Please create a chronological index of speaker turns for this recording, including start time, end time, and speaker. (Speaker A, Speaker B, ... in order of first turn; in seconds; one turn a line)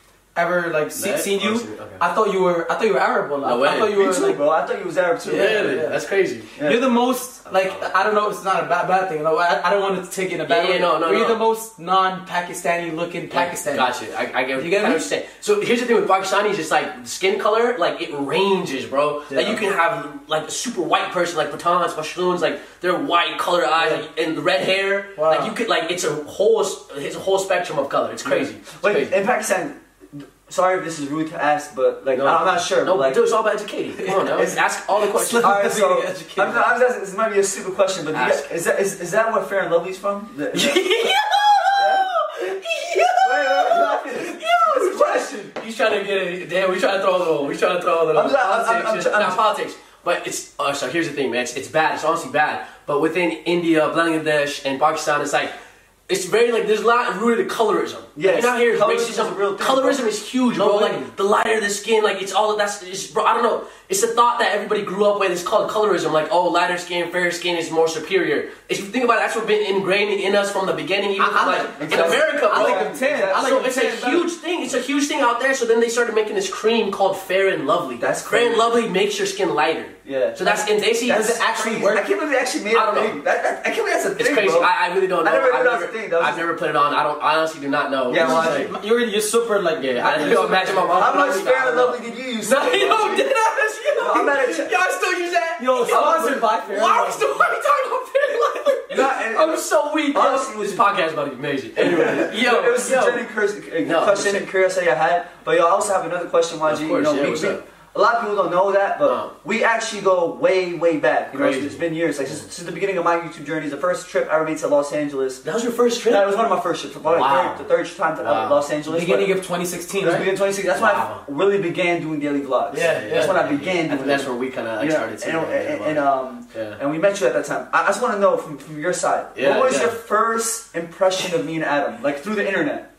Speaker A: 0.3-4.4
Speaker B: 0.9-2.0
Speaker B: 3.4-4.0
Speaker C: 3.8-5.8
Speaker A: 5.2-6.0
Speaker B: 5.3-6.5
Speaker C: 6.6-6.9
Speaker A: 6.6-13.9
Speaker B: 7.5-7.9
Speaker B: 10.5-11.4
Speaker B: 13.3-29.1
Speaker A: 14.6-15.1
Speaker A: 19.3-19.6
Speaker A: 23.8-24.0
Speaker A: 25.2-25.5
Speaker C: 28.3-33.2
Speaker B: 32.1-35.6
Speaker A: 34.0-34.3
Speaker A: 35.1-36.7
Speaker C: 35.4-41.1
Speaker B: 38.1-38.5
Speaker B: 40.5-55.5
Speaker C: 41.8-45.5
Speaker C: 48.1-49.4
Speaker B: 56.1-81.3
Speaker C: 58.2-60.0
Speaker A: 60.5-61.1
Speaker A: 71.2-74.2
Speaker C: 71.7-74.2
Speaker C: 78.0-78.8
Speaker C: 80.0-84.7
Speaker A: 81.1-82.0
Speaker B: 82.7-83.2
Speaker B: 84.2-88.7
Speaker C: 85.2-86.4
Speaker C: 88.1-88.7
Speaker A: 88.1-91.4
Speaker B: 89.8-103.2
Speaker C: 90.1-93.3
Speaker C: 94.0-94.7
Speaker A: 95.6-97.3
Speaker C: 98.9-100.8
Speaker C: 101.8-115.4
Speaker B: 103.8-104.5
Speaker B: 106.7-107.6
Speaker B: 109.0-109.3
Speaker B: 111.3-112.4
Speaker B: 115.4-116.4
Speaker C: 116.1-119.3
Speaker B: 117.1-117.7
Speaker B: 118.2-118.6
Speaker A: 118.9-120.3
Speaker C: 120.0-132.9
Speaker B: 120.7-121.2
Speaker B: 122.7-126.8
Speaker A: 122.7-123.4
Speaker B: 129.3-129.9